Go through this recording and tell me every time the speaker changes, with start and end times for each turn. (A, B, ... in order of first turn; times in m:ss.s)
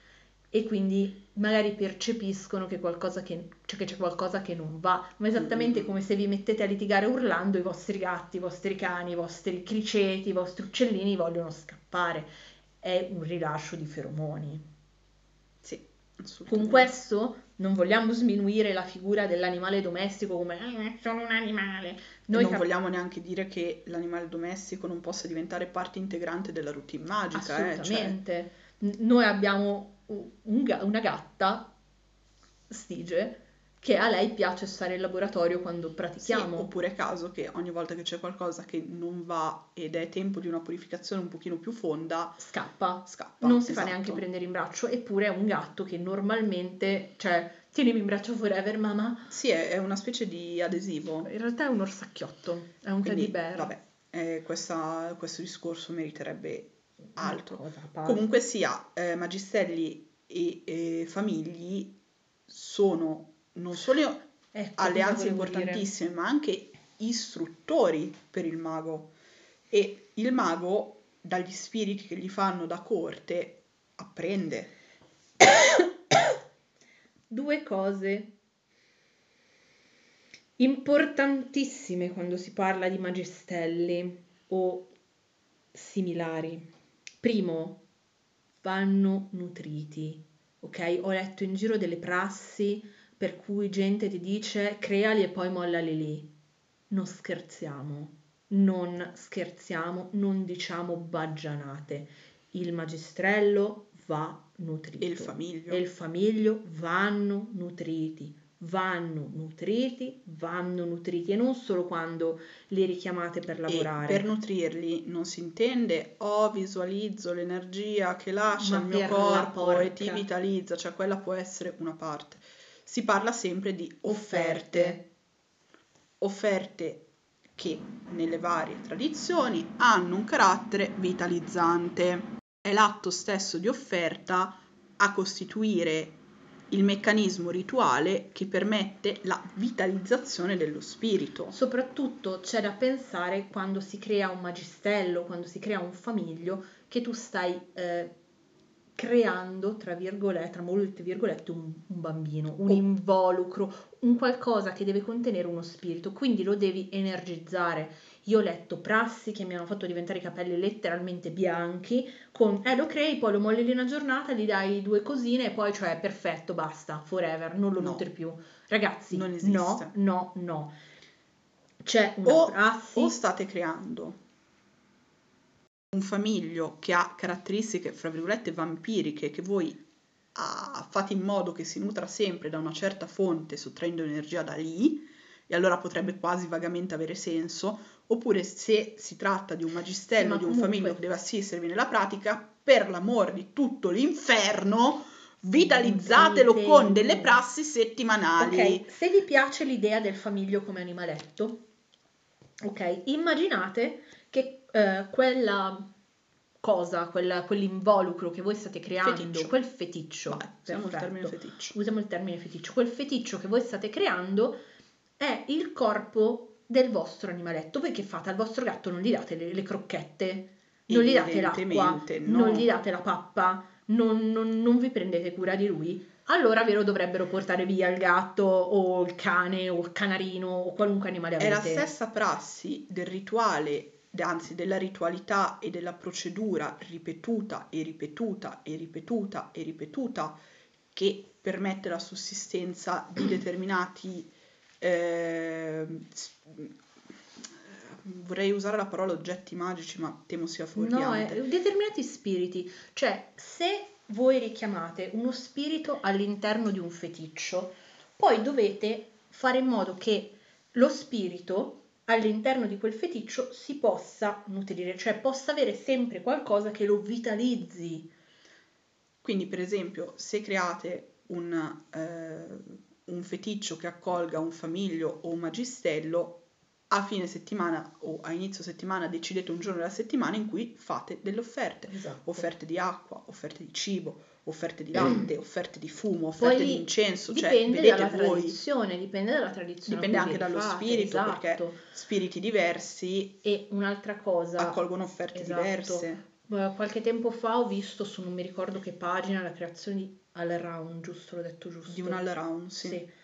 0:00.5-0:12.3 A
0:05.4-0:05.8 B
0:12.8-0:14.6 A
0:15.6-0:16.9 B
0:16.5-0:22.6 A
0:22.3-0:28.2 B
0:27.3-0:31.7 A
0:32.7-0:36.7 A
0:36.2-0:42.4 B
0:42.4-0:49.3 A
0:43.0-0:44.2 B
0:49.3-0:51.3 B
0:51.2-0:53.7 A
0:53.0-1:01.9 B
0:57.2-0:58.2 A
1:02.5-1:04.2 B
1:04.5-1:05.9 A
1:04.8-1:09.1 B
1:09.7-1:14.7 B
1:17.3-1:18.3 A
1:20.6-1:24.9 A
1:25.7-1:26.7 A
1:27.2-1:27.8 A
1:28.6-1:36.3 A
1:36.9-1:54.2 A
1:45.0-1:45.8 B
1:53.7-2:05.0 B
1:58.6-2:00.2 A
2:04.1-2:05.0 A
2:06.2-2:07.0 B
2:07.6-2:16.2 B
2:16.7-2:21.6 B
2:21.5-2:28.1 A
2:29.0-2:50.7 A
2:47.8-2:48.0 B
2:49.1-2:49.9 B
2:51.8-2:53.2 A
2:52.2-2:54.2 B
2:55.9-2:59.8 B
3:00.3-3:18.9 B
3:10.2-3:11.0 A
3:15.5-3:17.4 A
3:18.4-3:21.6 A
3:22.6-3:25.9 A
3:26.6-3:34.6 A
3:29.0-3:29.5 B
3:30.3-3:31.8 B
3:35.2-3:51.9 A
3:40.9-3:42.7 B
3:51.4-4:00.4 B
4:00.9-4:06.7 B
4:07.4-4:11.4 B
4:10.8-4:28.1 A
4:29.2-4:48.6 B
4:41.9-4:42.5 A
4:46.4-4:51.8 A
4:49.9-4:53.4 B
4:53.4-4:54.8 A
4:54.6-4:56.2 B
4:55.3-5:02.2 A
5:01.9-5:03.0 B
5:02.8-5:03.1 A